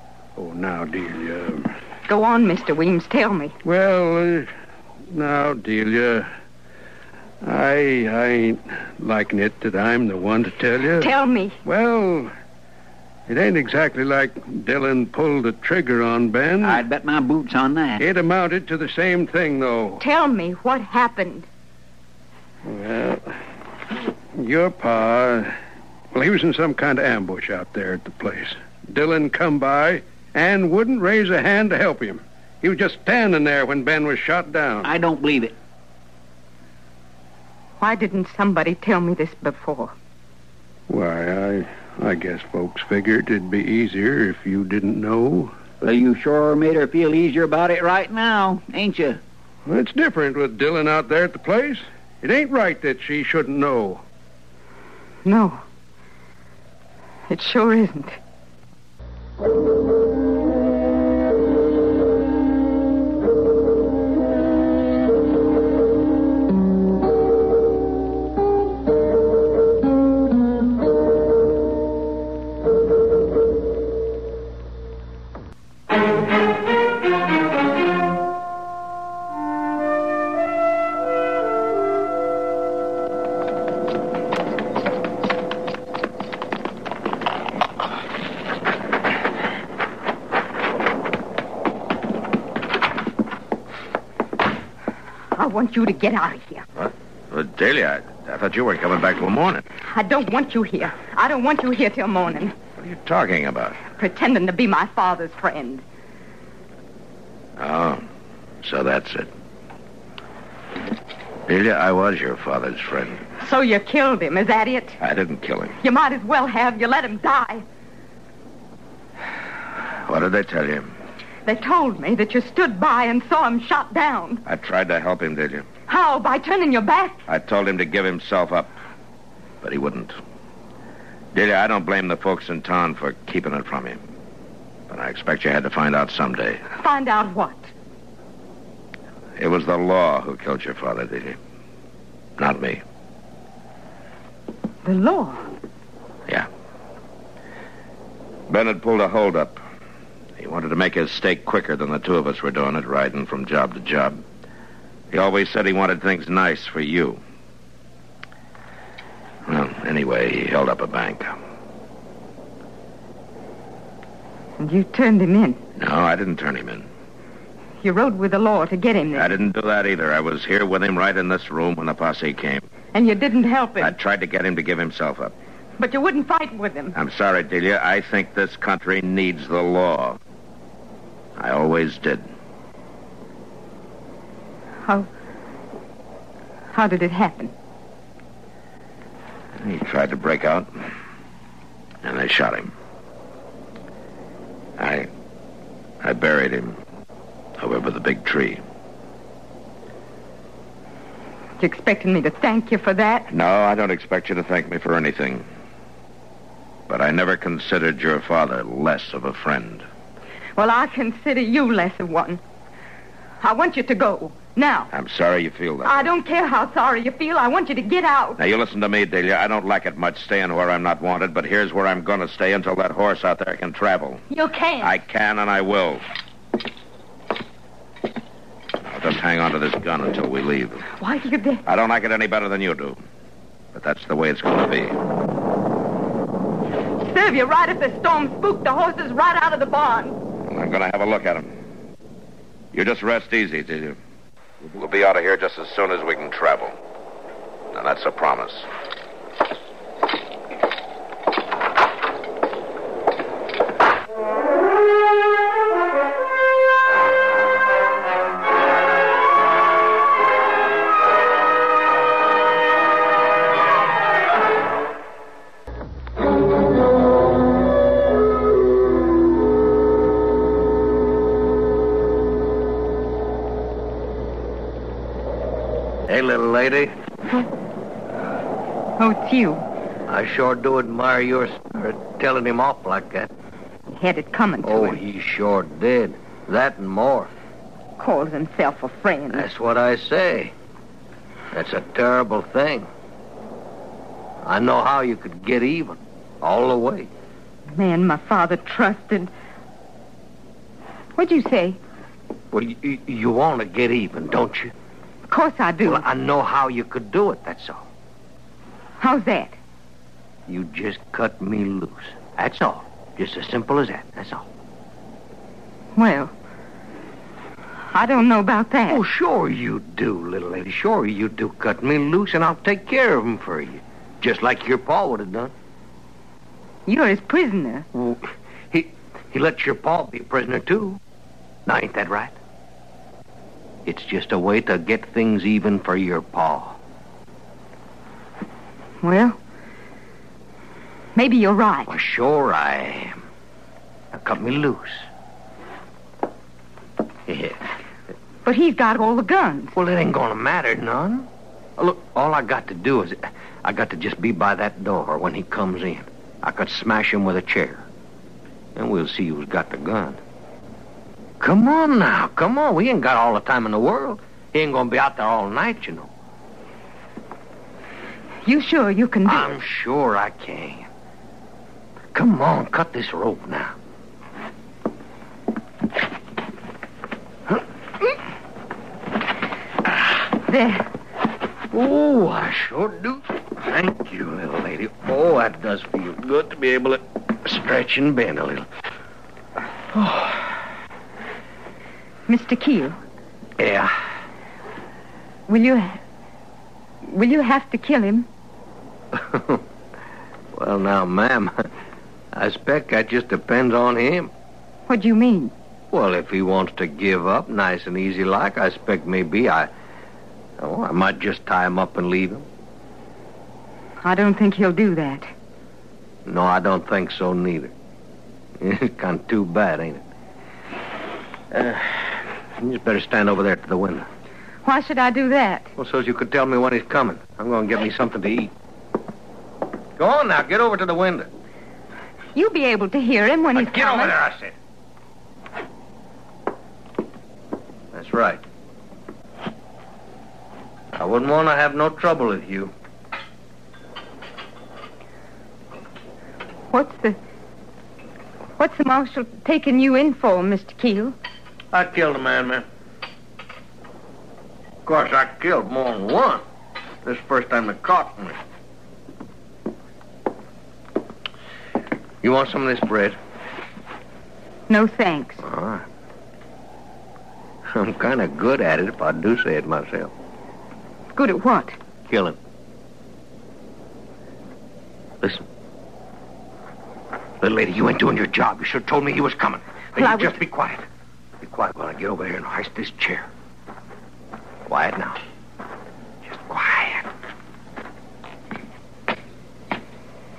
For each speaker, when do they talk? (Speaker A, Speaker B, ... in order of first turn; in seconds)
Speaker A: 0.3-1.7, 3.6-4.5, 5.1-6.3, 7.4-11.1, 11.6-12.3, 13.3-16.8, 18.0-20.0, 22.6-23.3, 24.3-25.5, 26.1-34.9, 40.9-45.5, 49.6-54.0
Speaker B: 2.1-3.5, 11.0-11.6, 20.0-21.5, 37.8-39.9, 55.2-55.6, 57.3-58.2, 95.3-96.6, 99.8-102.5, 103.9-105.8, 113.4-115.0, 115.8-117.6, 121.5-124.4, 125.9-127.2, 136.8-137.7, 144.8-145.5, 164.6-165.6, 167.8-169.3, 172.9-173.9, 175.8-176.9, 186.7-187.5, 201.6-203.3, 210.6-212.4, 213.4-214.9, 215.8-218.4, 224.3-224.9, 231.0-231.6, 237.0-240.2, 279.0-279.6, 283.9-285.0, 288.0-289.4, 297.7-299.3, 301.1-301.8, 305.3-306.1, 309.0-309.6, 315.9-316.3, 317.9-319.0, 326.9-327.9, 339.0-339.4, 341.1-341.9, 348.4-349.7, 368.4-369.6, 380.5-380.9, 392.3-393.0, 395.5-396.0, 397.0-398.3, 404.9-405.5, 414.0-415.3, 424.6-425.7, 432.3-434.1, 446.7-447.2, 448.6-451.1, 464.7-465.4, 471.1-471.8, 480.0-480.4
Speaker C: 16.6-18.0, 34.8-35.5, 45.8-49.2
Speaker D: 96.8-99.7, 102.8-103.8, 107.6-108.0, 108.6-109.3, 111.5-113.2, 115.0-115.8, 120.0-120.9, 124.5-125.7, 127.3-128.7, 129.6-130.2, 131.3-134.0, 134.9-136.6, 139.4-141.4, 142.4-142.8, 148.5-149.6, 150.4-154.2, 155.1-157.2, 159.4-161.4, 165.8-166.9, 169.2-172.7, 173.8-175.3, 176.9-180.2, 181.4-182.3, 189.6-190.7, 192.0-192.7, 194.8-195.1, 196.0-196.8, 197.6-198.6, 203.3-205.4, 206.9-209.8, 214.9-216.1, 218.4-224.2, 224.8-226.0, 228.9-230.8, 231.7-233.0, 233.7-235.0, 240.5-241.5, 242.7-244.0, 244.6-246.7, 247.7-248.7
Speaker E: 276.1-276.9, 280.1-283.3, 284.6-287.3, 289.3-290.5, 291.5-292.9, 294.4-297.1, 302.5-304.7, 305.8-307.9, 310.5-314.4, 318.9-325.5, 327.9-331.0, 331.6-332.3, 333.8-336.8, 341.9-343.2, 344.1-345.1, 347.3-347.6, 349.7-357.9, 358.7-360.2, 361.4-366.1, 369.2-370.9, 372.1-373.7, 377.5-378.1, 381.7-388.7, 389.9-390.5, 393.6-393.9, 399.1-399.6, 400.5-401.7, 402.3-404.3, 405.9-409.7, 410.6-412.5, 416.2-417.7, 418.6-420.0, 421.5-424.1, 425.8-428.5, 430.0-431.3, 433.5-434.5, 437.9-438.4, 440.9-442.7, 451.7-452.6, 454.8-456.4, 457.0-458.4, 462.2-463.2, 465.4-465.8, 467.7-470.1, 472.0-472.4, 477.4-480.8, 481.4-483.3, 484.7-485.2, 486.2-487.1